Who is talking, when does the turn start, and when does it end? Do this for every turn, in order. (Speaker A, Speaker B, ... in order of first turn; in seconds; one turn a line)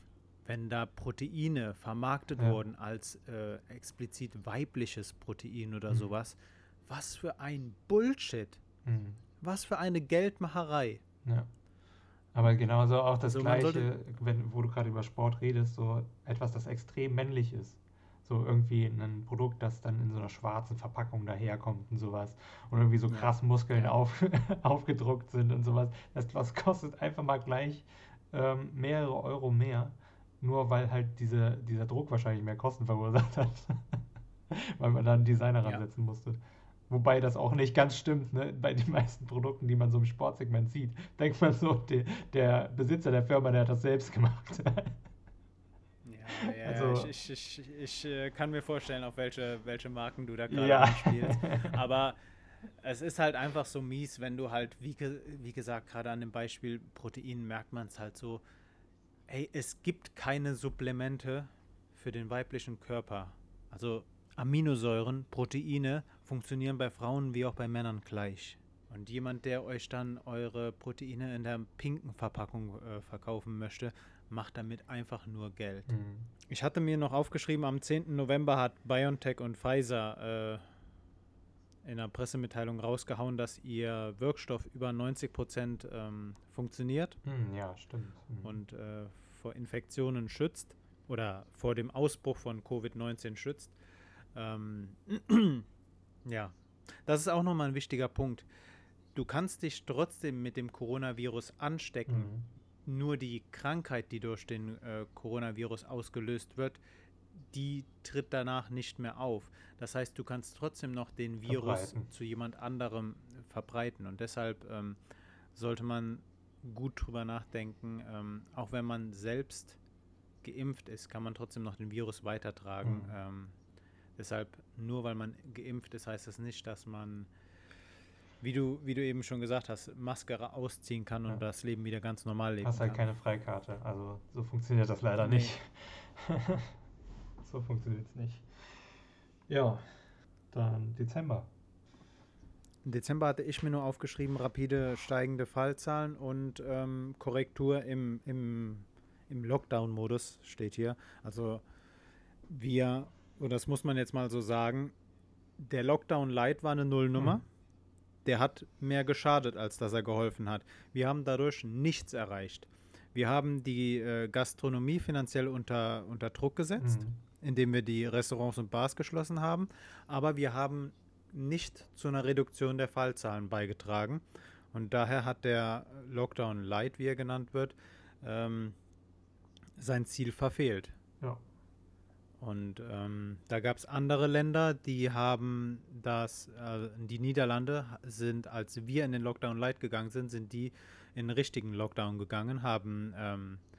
Speaker A: 0.5-8.6
Speaker B: 8.8-9.2
Speaker A: 9.4-11.0
Speaker B: 11.2-11.5
Speaker B: 12.3-45.0
Speaker A: 13.2-13.9
Speaker A: 23.1-23.9
Speaker A: 46.0-52.2
Speaker B: 46.4-47.1
Speaker B: 50.5-51.8
Speaker A: 52.8-58.4
Speaker A: 59.3-75.9
Speaker B: 75.9-76.3
Speaker A: 76.5-80.7
Speaker A: 81.8-87.2
Speaker B: 87.2-88.6
Speaker A: 88.4-93.7
Speaker A: 94.3-95.7
Speaker A: 96.2-98.5
Speaker A: 99.2-102.3
Speaker B: 102.1-102.5
Speaker A: 102.9-106.8
Speaker A: 107.5-115.0
Speaker B: 111.5-112.1
Speaker A: 115.5-119.8
Speaker A: 120.4-123.6
Speaker B: 122.8-123.1
Speaker A: 124.2-127.3
Speaker A: 128.4-133.0
Speaker B: 132.6-136.8
Speaker A: 135.2-135.5
Speaker B: 137.4-138.5
Speaker B: 139.5-141.5
Speaker A: 142.8-151.6
Speaker A: 152.5-154.9
Speaker A: 155.6-157.4
Speaker B: 157.2-157.4
Speaker A: 158.2-178.8
Speaker B: 166.8-167.2
Speaker A: 179.8-181.0
Speaker A: 182.4-193.6